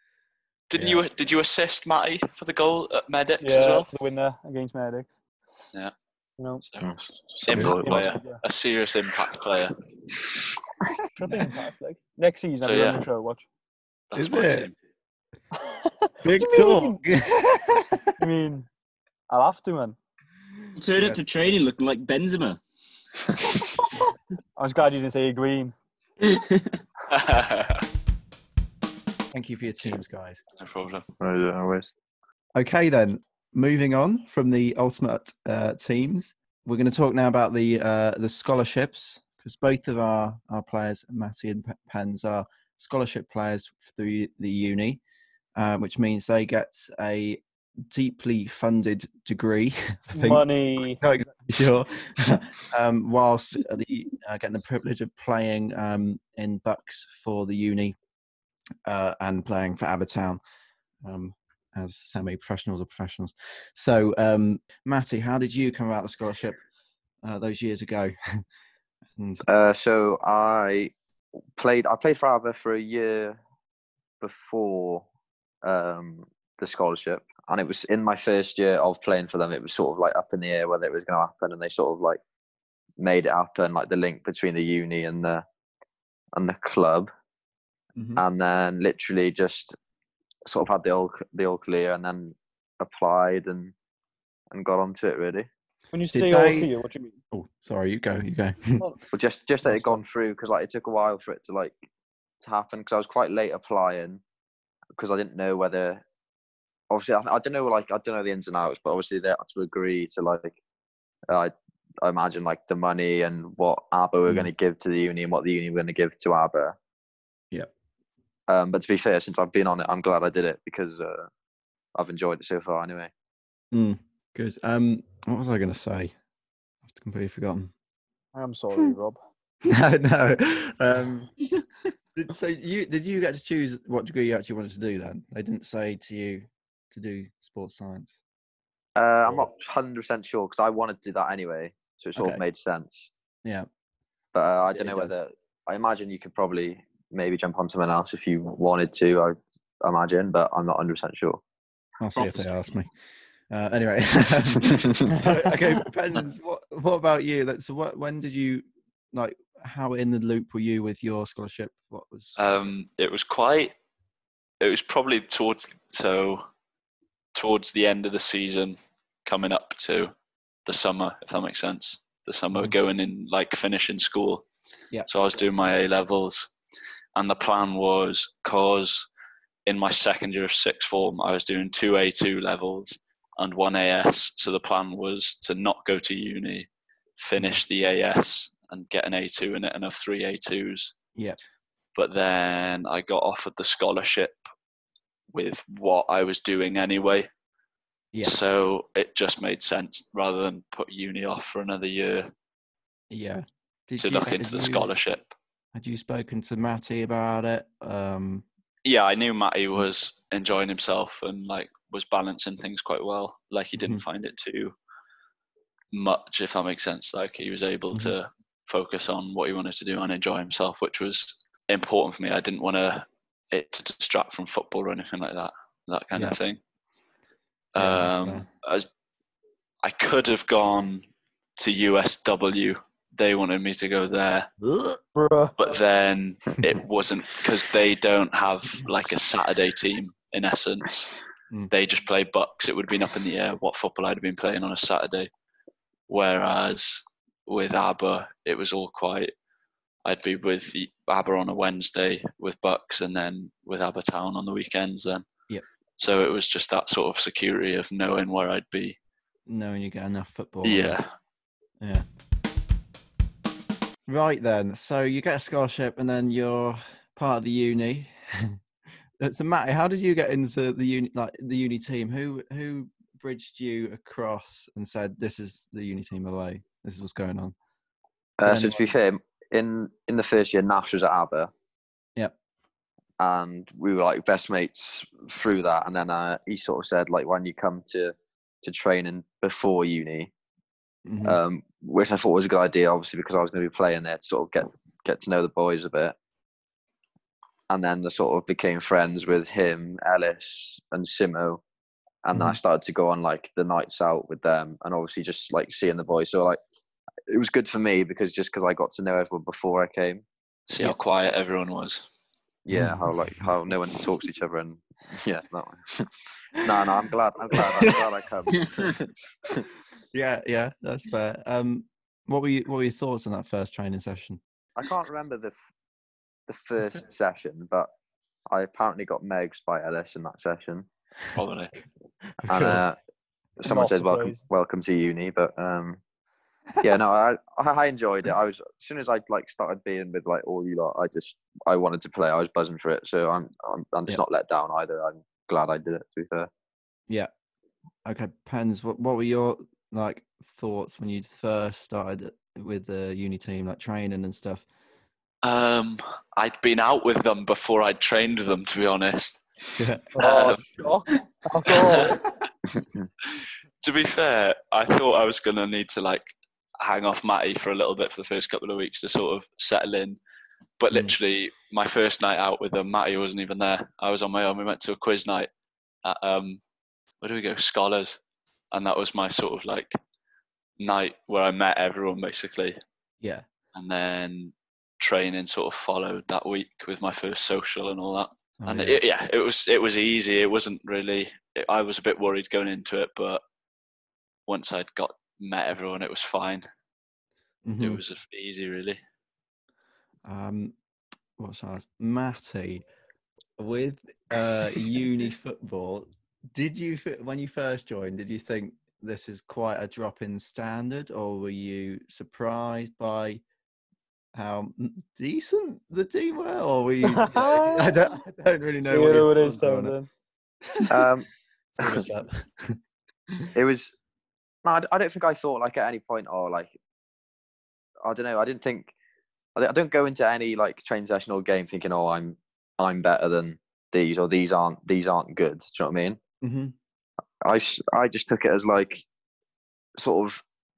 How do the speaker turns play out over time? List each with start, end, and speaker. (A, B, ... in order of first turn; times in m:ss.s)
0:00.7-0:03.9 A
0:00.8-0:01.0 B
0:03.4-0:05.2 C
0:06.4-0:06.6 C
0:06.8-0:08.1 D
0:07.4-0:09.7 A
0:07.5-0:07.9 B
0:07.7-0:08.4 C
0:11.2-0:13.4 C
0:12.6-0:13.0 A
0:14.1-0:14.7 A
0:14.1-0:14.7 B
0:15.6-0:17.0 C
0:16.2-0:18.1 B
0:18.2-0:18.7 C
0:19.3-0:20.0 C
0:20.8-0:22.6 E
0:24.6-0:25.7 C
0:26.2-0:26.8 E
0:27.1-0:27.8 A
0:29.3-0:30.4 B
0:30.6-0:31.0 A
0:31.2-0:31.9 D
0:32.5-0:45.0 B
0:45.6-0:58.0 B
0:50.1-0:51.0 C
0:58.8-1:00.4 B
1:01.0-1:06.6 B
1:07.2-1:08.4 B
1:09.2-1:09.4 B
1:09.4-1:10.9 D
1:11.6-1:13.4 D
1:14.2-1:15.0 D
1:15.6-1:22.2 D
1:23.0-1:25.4 D
1:26.3-1:27.1 D
1:28.0-1:28.2 B
1:28.2-1:29.8 D
1:30.4-1:33.7 D
1:34.5-1:35.5 D
1:35.9-1:37.2 C
1:36.1-1:36.7 B
1:37.3-1:38.8 B
1:39.1-1:41.7 D
1:39.7-1:40.0 B
1:42.4-1:44.2 D
1:45.0-1:46.0 D
1:46.9-1:50.6 D
1:51.3-1:56.8 D
1:58.5-2:01.3 D
2:01.9-2:03.1 D
2:03.7-2:06.1 B
2:06.8-2:07.7 B
2:08.3-2:09.2 C
2:09.6-2:11.4 B
2:12.1-2:18.2 B
2:19.0-2:23.1 D
2:22.2-2:22.4 B
2:24.3-2:31.4 D
2:24.7-2:25.1 B
2:32.0-2:32.9 B
2:32.1-2:32.5 E
2:33.5-2:42.3 B
2:42.4-2:43.7 A
2:44.6-2:46.4 A
2:47.3-2:50.1 A
2:50.6-2:54.4 A
2:55.1-2:56.5 A
2:57.1-2:59.1 A
2:59.6-3:10.9 A
3:12.0-3:14.4 A
3:15.3-3:17.3 A
3:18.2-3:22.3 A
3:23.1-3:24.9 B
3:24.0-3:25.3 A
3:25.7-3:28.4 B
3:28.8-3:34.7 A
3:33.8-3:34.0 B
3:35.9-3:46.6 A
3:47.7-3:48.9 A
3:47.8-3:48.4 B
3:49.8-3:51.0 A
3:51.6-3:54.5 A
3:54.6-3:55.0 B
3:55.1-3:55.7 C
3:55.6-4:01.1 A
4:01.7-4:05.3 A
4:06.1-4:09.3 A
4:10.0-4:15.2 A
4:16.0-4:19.0 A
4:19.5-4:21.0 B
4:20.6-4:21.1 A
4:24.1-4:28.6 B
4:29.2-4:37.5 B
4:38.4-4:41.5 D
4:38.4-4:38.9 B
4:43.2-4:50.3 D
4:51.0-4:51.4 B
4:51.2-4:56.2 D
4:57.7-5:01.6 D
5:02.2-5:06.6 D
5:07.3-5:10.2 D
5:10.7-5:12.0 A
5:12.6-5:19.6 D
5:12.7-5:13.5 B
5:17.5-5:18.0 B
5:18.6-5:18.9 E
5:20.1-5:24.4 B
5:24.8-5:25.6 D
5:26.5-5:27.9 D
5:28.5-5:30.9 D
5:31.3-5:31.7 A
5:32.4-5:32.8 B
5:32.5-5:33.0 D
5:33.6-5:36.0 D
5:33.6-5:34.4 C
5:36.8-5:46.5 D
5:48.0-5:54.6 B
5:55.4-5:59.4 A
5:59.8-6:00.1 B
6:00.1-6:02.2 C
6:00.2-6:00.6 A
6:01.6-6:02.2 A
6:03.8-6:10.2 A
6:10.8-6:15.5 A
6:16.0-6:16.6 A
6:17.2-6:18.2 A
6:18.7-6:19.9 A
6:20.8-6:22.8 A
6:23.2-6:23.4 B
6:23.7-6:33.4 A
6:28.6-6:29.0 B
6:34.5-6:36.6 A
6:37.6-6:38.0 B
6:37.8-6:39.0 A
6:40.2-6:40.7 B
6:41.4-6:42.8 B
6:43.6-6:53.4 B
6:54.3-6:59.9 B
6:57.0-6:57.9 C
6:58.9-7:00.1 C
7:00.7-7:01.0 B
7:00.9-7:01.3 D
7:01.8-7:02.8 B
7:03.5-7:03.9 D
7:04.6-7:06.7 D
7:08.0-7:08.9 D
7:09.6-7:16.2 D
7:16.4-7:16.7 B
7:17.4-7:19.0 D
7:20.0-7:20.4 D